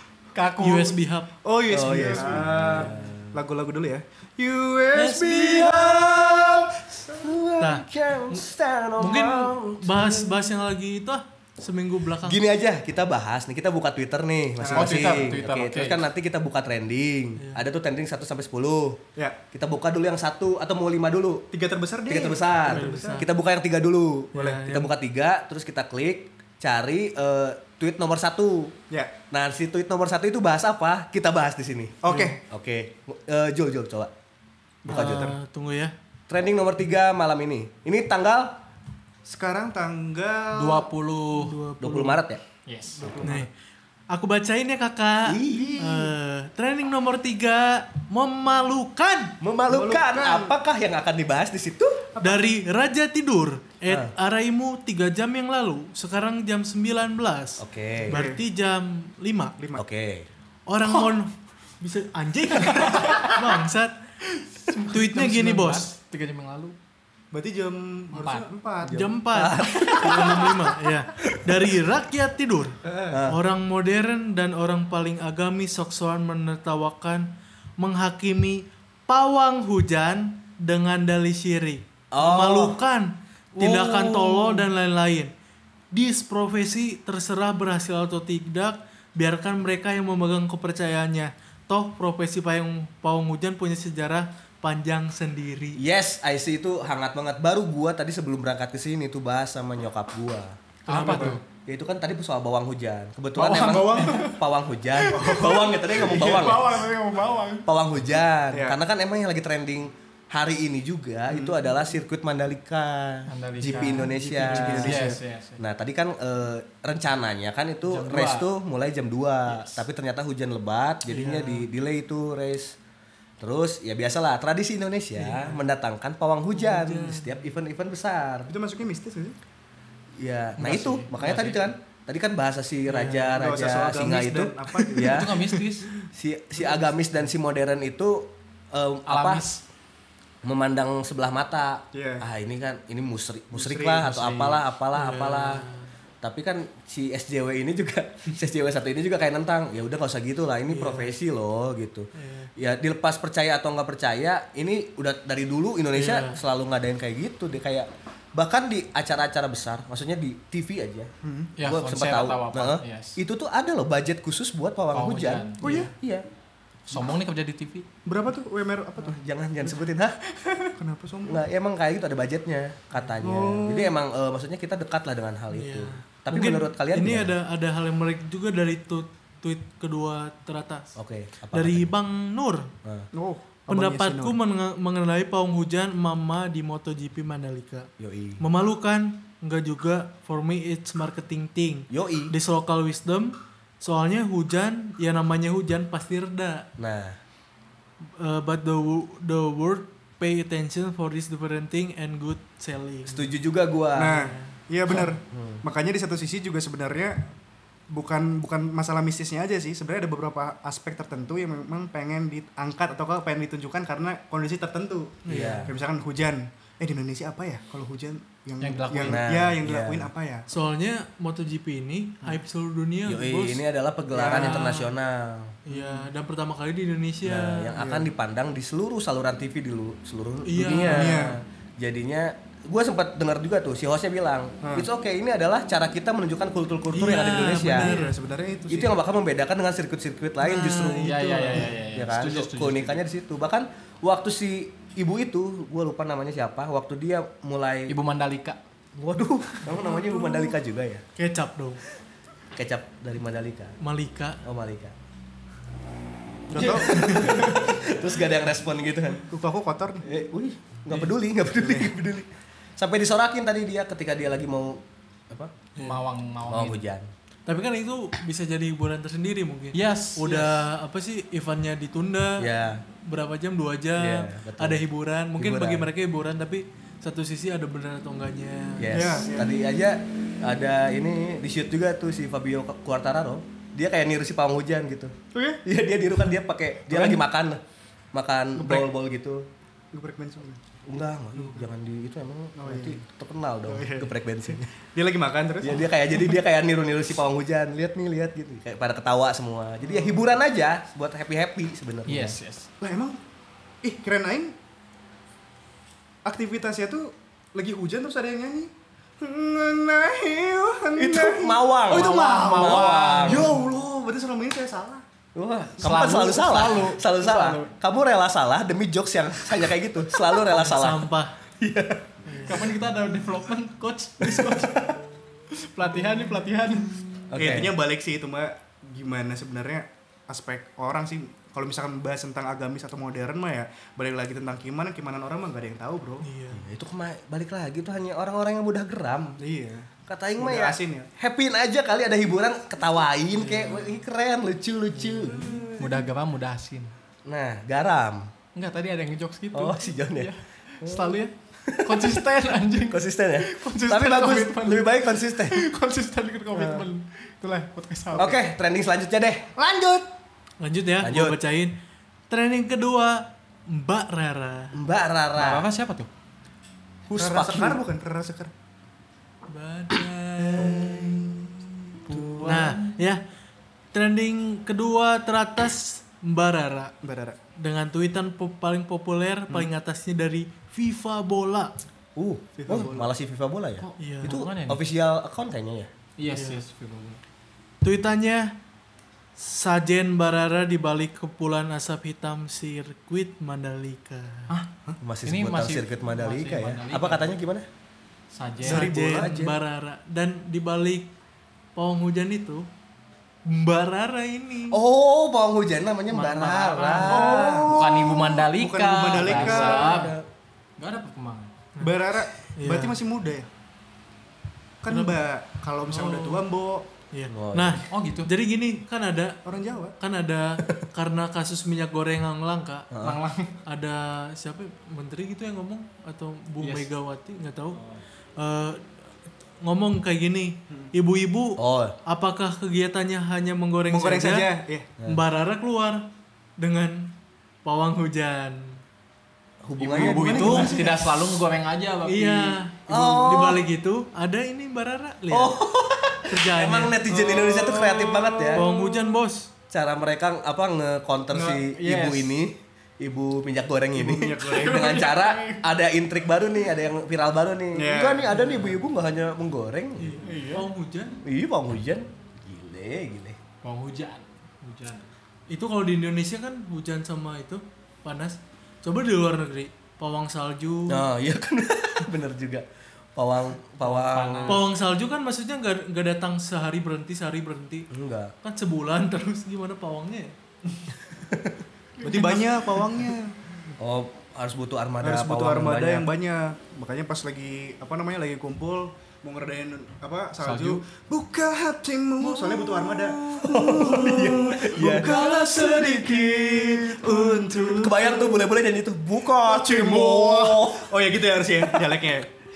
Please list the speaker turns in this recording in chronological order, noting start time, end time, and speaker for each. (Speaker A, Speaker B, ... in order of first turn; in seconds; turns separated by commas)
Speaker A: 0.3-0.9, Speaker B: 0.6-1.3, Speaker C: 1.4-5.3, Speaker D: 1.7-3.3, Speaker B: 5.0-5.9, Speaker D: 5.0-10.5, Speaker B: 7.6-7.8, Speaker B: 9.0-12.4, Speaker D: 12.2-19.0, Speaker C: 14.6-15.2, Speaker A: 14.7-16.0, Speaker B: 17.4-17.6, Speaker D: 19.5-21.4, Speaker C: 21.5-23.2, Speaker D: 22.1-28.7, Speaker B: 22.7-23.3, Speaker B: 24.4-24.9, Speaker D: 29.3-31.9, Speaker C: 32.0-32.4, Speaker B: 32.0-32.4, Speaker D: 32.5-34.1, Speaker C: 34.8-35.3, Speaker D: 34.9-35.3, Speaker B: 34.9-35.9, Speaker D: 36.3-38.5, Speaker C: 39.2-40.9, Speaker A: 40.5-41.6, Speaker B: 41.3-42.2, Speaker D: 41.8-42.4, Speaker A: 42.6-43.4, Speaker C: 43.0-43.4, Speaker B: 43.2-43.5, Speaker B: 44.1-49.3, Speaker D: 45.2-45.8, Speaker C: 45.5-46.1, Speaker D: 49.4-52.0, Speaker C: 49.7-50.5, Speaker C: 52.1-52.5, Speaker B: 52.2-59.5, Speaker D: 57.6-58.2, Speaker C: 58.1-58.4, Speaker C: 59.6-59.8, Speaker D: 59.8-60.2, Speaker B: 60.7-64.0, Speaker A: 62.6-63.4, Speaker A: 64.6-66.8, Speaker B: 64.8-65.9, Speaker C: 67.3-69.0, Speaker A: 68.1-68.5, Speaker D: 68.8-70.7, Speaker B: 68.9-77.3, Speaker D: 71.2-71.6, Speaker C: 72.8-73.1, Speaker D: 73.1-73.4, Speaker B: 77.8-85.3, Speaker D: 82.1-82.8, Speaker D: 83.6-84.6, Speaker B: 85.9-95.8, Speaker D: 95.8-100.5, Speaker A: 100.8-101.4, Speaker B: 100.9-101.3, Speaker C: 100.9-101.4, Speaker D: 101.7-106.8, Speaker A: 103.3-104.4, Speaker C: 103.5-104.3, Speaker A: 105.0-107.7, Speaker C: 105.1-106.1, Speaker D: 107.7-122.8, Speaker C: 108.5-108.8, Speaker C: 111.3-111.6, Speaker A: 113.3-115.6, Speaker C: 113.6-115.2, Speaker B: 114.5-115.0, Speaker A: 117.9-118.5, Speaker A: 119.5-119.8, Speaker B: 121.0-121.7, Speaker D: 123.4-128.5, Speaker B: 125.2-125.7, Speaker B: 126.5-127.5, Speaker C: 128.5-129.4, Speaker D: 130.2-135.4, Speaker A: 130.6-131.6, Speaker C: 133.0-135.2, Speaker A: 135.0-135.9, Speaker D: 136.1-139.4, Speaker A: 139.1-139.6, Speaker D: 140.4-145.6, Speaker C: 141.9-142.2, Speaker C: 143.5-144.1, Speaker A: 144.0-144.6, Speaker B: 144.9-145.9, Speaker D: 146.2-161.1, Speaker B: 150.7-151.1, Speaker B: 152.2-152.5, Speaker B: 155.9-156.4, Speaker C: 161.2-161.5, Speaker A: 161.6-163.2, Speaker D: 161.6-166.2, Speaker A: 164.9-165.9, Speaker C: 165.6-165.9, Speaker A: 166.9-167.8, Speaker C: 168.1-169.2, Speaker D: 169.0-170.2, Speaker C: 170.6-171.4, Speaker D: 171.2-177.3, Speaker C: 173.2-173.9, Speaker B: 175.5-180.9, Speaker D: 180.9-181.9, Speaker B: 181.5-182.7, Speaker C: 183.1-184.4, Speaker B: 183.7-187.9, Speaker D: 188.0-188.4, Speaker B: 188.4-196.7, Speaker D: 191.9-192.3, Speaker D: 196.8-197.2, Speaker B: 198.2-203.3, Speaker D: 203.1-204.1, Speaker C: 204.0-207.2, Speaker B: 204.0-204.5, Speaker D: 204.9-205.6, Speaker C: 207.9-220.4, Speaker B: 215.2-215.7, Speaker D: 215.3-215.7, Speaker A: 218.6-219.3, Speaker D: 219.1-220.1, Speaker B: 220.5-223.6, Speaker D: 223.1-225.5, Speaker C: 224.1-224.6, Speaker B: 224.2-224.9, Speaker B: 225.7-227.8, Speaker C: 225.7-226.1, Speaker D: 227.2-237.9, Speaker C: 227.8-228.1, Speaker B: 230.4-231.2, Speaker C: 230.9-231.4, Speaker B: 236.9-238.1, Speaker C: 237.3-238.9, Speaker D: 238.7-241.2, Speaker B: 240.4-241.7, Speaker A: 241.0-243.0, Speaker D: 241.9-247.9, Speaker A: 247.9-248.6, Speaker D: 249.0-251.0, Speaker B: 249.8-250.4, Speaker B: 251.2-251.8, Speaker D: 252.6-253.7, Speaker B: 253.8-254.4, Speaker D: 254.4-254.9, Speaker C: 256.5-257.3, Speaker D: 256.6-259.2, Speaker B: 256.9-257.5, Speaker C: 259.3-260.1, Speaker D: 260.0-265.5, Speaker C: 261.6-261.9, Speaker A: 265.8-266.8, Speaker D: 266.5-267.1, Speaker B: 267.4-272.5, Speaker A: 269.7-270.6, Speaker D: 272.4-272.8, Speaker B: 273.1-279.1, Speaker D: 274.0-274.8, Speaker D: 275.4-275.9, Speaker D: 278.8-287.6, Speaker C: 278.9-279.5, Speaker C: 285.3-285.6, Speaker C: 286.9-287.2, Speaker D: 288.1-289.4, Speaker C: 288.6-288.9, Speaker C: 289.9-290.6, Speaker D: 290.9-294.7, Speaker C: 291.4-291.7, Speaker C: 292.6-293.0, Speaker C: 293.7-296.4, Speaker D: 295.6-302.4, Speaker C: 299.8-300.2, Speaker A: 302.1-302.7, Speaker C: 302.8-303.2, Speaker C: 303.8-304.5, Speaker C: 306.2-315.0, Speaker D: 310.9-313.6, Speaker A: 311.9-313.5, Speaker D: 315.3-321.1, Speaker A: 315.8-317.7, Speaker B: 320.5-321.3, Speaker D: 321.6-322.0, Speaker B: 322.2-322.6, Speaker A: 322.4-324.9, Speaker D: 324.2-324.5, Speaker A: 325.6-327.0, Speaker D: 327.3-327.7, Speaker C: 327.4-336.2, Speaker B: 336.2-336.6, Speaker D: 336.5-339.4, Speaker C: 339.4-341.1, Speaker D: 340.1-345.7, Speaker B: 343.4-344.0, Speaker B: 344.9-345.7, Speaker C: 345.5-345.8, Speaker A: 345.8-346.9, Speaker D: 347.2-348.3, Speaker A: 348.5-358.4, Speaker D: 349.5-352.1, Speaker D: 352.9-355.6, Speaker D: 356.5-356.9, Speaker D: 358.1-359.6, Speaker C: 359.6-360.0, Speaker B: 360.6-361.8, Speaker D: 361.0-361.4, Speaker B: 362.3-364.7, Speaker D: 364.7-365.7, Speaker A: 365.4-366.1, Speaker D: 367.1-367.8, Speaker C: 367.2-368.5, Speaker B: 369.5-370.8, Speaker C: 370.5-371.5, Speaker C: 372.1-372.5, Speaker A: 372.1-372.9, Speaker D: 372.1-372.6, Speaker B: 372.4-373.2, Speaker B: 373.9-376.9, Speaker C: 377.0-377.4, Speaker B: 377.6-381.7, Speaker D: 382.1-385.9, Speaker C: 382.6-383.1, Speaker A: 383.8-384.8, Speaker B: 384.0-384.4, Speaker A: 386.2-387.2, Speaker B: 386.3-386.6, Speaker B: 387.8-388.5, Speaker B: 389.4-394.5, Speaker D: 395.0-397.6, Speaker A: 395.2-397.3, Speaker A: 398.3-398.9, Speaker D: 398.6-399.6, Speaker C: 398.6-399.3, Speaker B: 398.7-401.1, Speaker B: 401.8-402.6, Speaker B: 403.4-404.8, Speaker D: 404.7-407.7, Speaker A: 406.1-410.1, Speaker B: 406.4-407.1, Speaker C: 407.0-409.9, Speaker D: 409.2-410.2, Speaker B: 409.5-410.0, Speaker A: 410.8-411.5, Speaker C: 411.8-413.5, Speaker B: 412.6-413.0, Speaker C: 414.8-416.9, Speaker B: 414.9-415.2, Speaker B: 415.9-416.5, Speaker B: 417.1-419.4, Speaker D: 417.3-417.8, Speaker A: 417.9-418.3, Speaker C: 419.4-419.9, Speaker B: 420.0-422.9, Speaker D: 422.9-423.2, Speaker A: 423.0-423.5, Speaker B: 423.6-427.8, Speaker A: 426.6-426.9, Speaker B: 428.4-428.8, Speaker B: 429.6-434.5, Speaker D: 431.6-431.9, Speaker C: 433.9-434.9, Speaker B: 435.1-436.0, Speaker B: 436.6-437.1, Speaker B: 437.6-438.8, Speaker D: 439.6-440.8, Speaker A: 439.8-442.6, Speaker C: 439.9-441.1, Speaker B: 442.0-445.5, Speaker D: 442.9-443.7, Speaker D: 445.3-448.7, Speaker B: 446.3-447.0, Speaker C: 447.1-449.0, Speaker B: 448.5-449.5, Speaker D: 449.7-460.2, Speaker A: 451.3-452.4, Speaker C: 453.9-455.0, Speaker A: 454.4-455.6, Speaker C: 457.8-458.5, Speaker A: 458.4-458.7, Speaker B: 460.0-461.2, Speaker A: 460.2-460.6, Speaker D: 461.2-463.4, Speaker A: 463.6-465.1, Speaker B: 465.5-471.1, Speaker D: 470.9-474.7, Speaker A: 473.8-474.7, Speaker B: 474.5-477.9, Speaker D: 477.9-478.3, Speaker B: 478.4-480.3, Speaker D: 481.3-481.6, Speaker C: 482.0-483.3, Speaker B: 482.1-482.4, Speaker D: 483.8-486.1, Speaker C: 485.0-498.4, Speaker A: 490.4-490.8, Speaker D: 492.4-500.9, Speaker C: 499.3-502.3